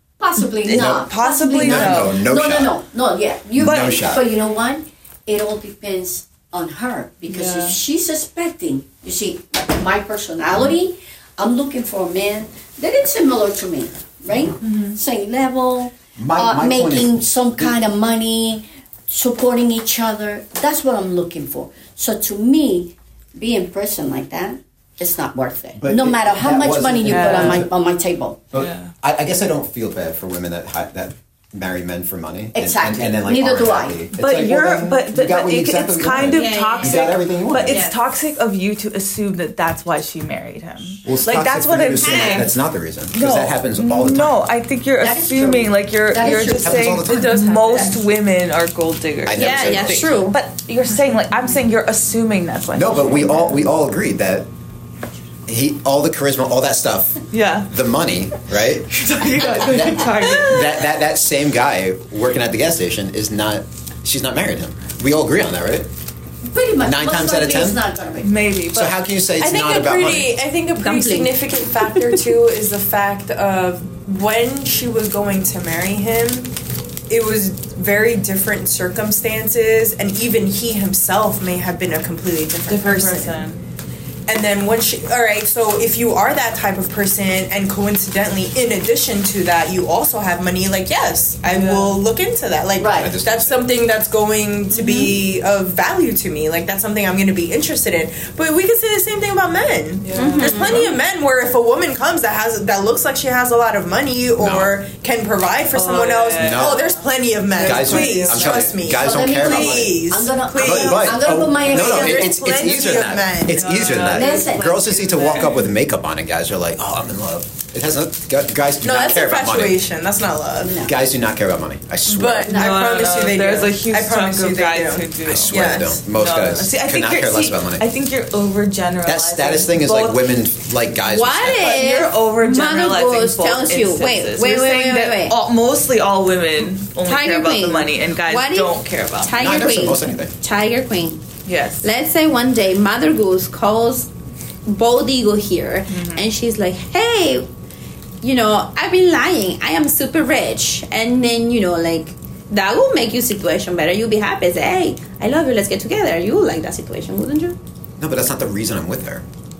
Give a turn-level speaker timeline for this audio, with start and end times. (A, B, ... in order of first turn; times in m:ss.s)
0:00.2-0:28.4 A
0:00.4-0:02.2 B
0:00.7-0:02.7 C
0:03.6-0:04.2 C
0:03.6-0:03.9 B
0:07.3-0:07.8 B
0:14.6-0:14.9 B
0:16.2-0:17.8 C
0:25.8-0:27.7 C
0:27.1-0:27.6 B
0:28.5-0:37.8 C
0:28.5-0:28.9 B
0:32.5-0:34.0 A
0:34.2-0:42.5 B
0:36.3-0:38.0 D
0:41.0-0:44.4 C
0:42.0-0:42.5 D
0:43.1-0:53.6 B
0:45.0-0:47.9 A
0:46.4-0:47.4 C
0:47.0-0:48.0 E
0:49.2-0:50.2 C
0:49.4-0:50.4 D
0:52.7-0:54.5 C
0:55.5-1:05.9 C
0:57.3-0:57.7 B
0:59.0-1:00.8 B
1:06.5-1:08.3 A
1:06.8-1:07.8 C
1:08.2-1:09.0 B
1:08.7-1:10.4 C
1:09.4-1:16.5 E
1:10.8-1:12.1 D
1:17.1-1:23.4 E
1:22.7-1:23.6 B
1:24.2-1:54.1 E
1:31.4-1:32.0 B
1:32.8-1:33.1 A
1:33.0-1:33.7 C
1:34.7-1:35.1 D
1:40.0-1:40.8 B
1:40.1-1:40.9 D
1:44.4-1:44.8 C
1:45.7-1:48.6 B
1:46.4-1:46.8 C
1:47.5-1:50.0 C
1:49.0-1:52.5 A
1:50.6-1:59.8 C
1:52.7-1:55.7 B
1:54.1-1:54.8 A
1:58.8-2:00.8 E
2:00.6-2:00.9 A
2:00.8-2:02.6 C
2:02.1-2:06.0 E
2:02.5-2:02.9 A
2:02.5-2:10.3 B
2:05.2-2:07.8 C
2:09.0-2:11.8 C
2:11.0-2:15.4 D
2:11.4-2:19.4 B
2:17.0-2:21.2 D
2:19.4-2:20.3 C
2:21.4-2:21.8 B
2:21.8-2:24.1 D
2:24.6-2:27.5 D
2:25.9-2:26.3 B
2:28.2-2:37.6 D
2:38.0-2:39.2 C